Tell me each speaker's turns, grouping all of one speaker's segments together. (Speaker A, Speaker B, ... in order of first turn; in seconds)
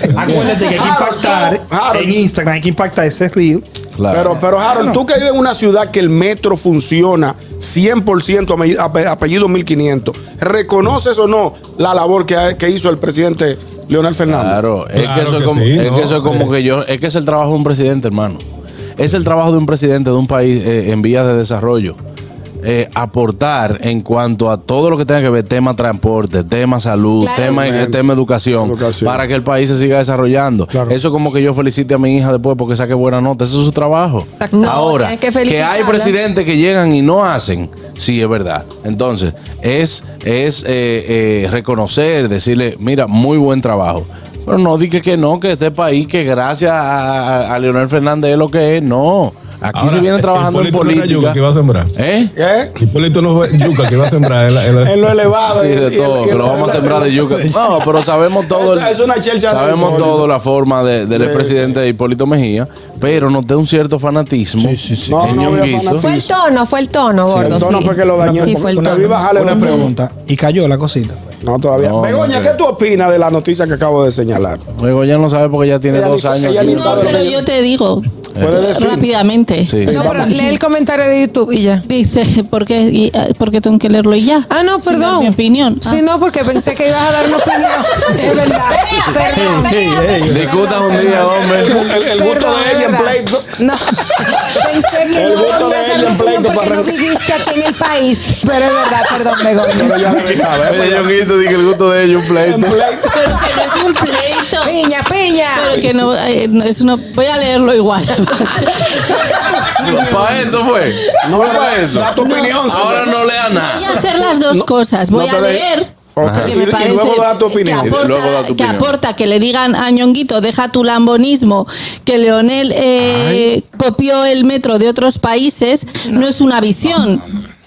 Speaker A: 0.1-0.6, 4.0-4.4, 14.3-18.4, 19.0-22.0, 22.6-51.4, 52.0-52.3, 55.5-66.1, 71.8-72.6, 74.8-77.3, 78.3-78.7, 79.7-80.2, 90.3-91.8, 100.6-102.8, 109.8-114.0, 116.2-116.6, 117.8-119.0
Speaker B: 0.1-3.6, 4.7-5.0, 64.6-65.7, 67.3-71.3, 89.2-90.6
Speaker C: 0.3-2.2, 4.1-14.6, 27.5-28.0, 28.6-29.2, 52.4-52.8, 54.8-57.3, 58.5-60.3, 61.1-61.8, 65.1-66.3, 67.3-69.9, 71.4-74.6, 75.9-77.5, 78.4-79.1, 91.5-93.5, 94.2-94.6, 95.1-97.0, 99.7-101.2, 102.4-103.5, 111.2-113.2, 114.5-118.0
Speaker D: 14.9-16.5, 49.7-51.9, 52.8-55.0
Speaker E: 27.2-27.6, 34.5-36.1, 66.0-69.9
Speaker F: 34.4-34.8, 79.9-81.8, 84.5-100.2, 104.6-105.8
Speaker G: 76.6-80.5, 81.8-86.0, 103.1-104.8, 105.5-110.0, 112.2-112.5, 113.5-127.2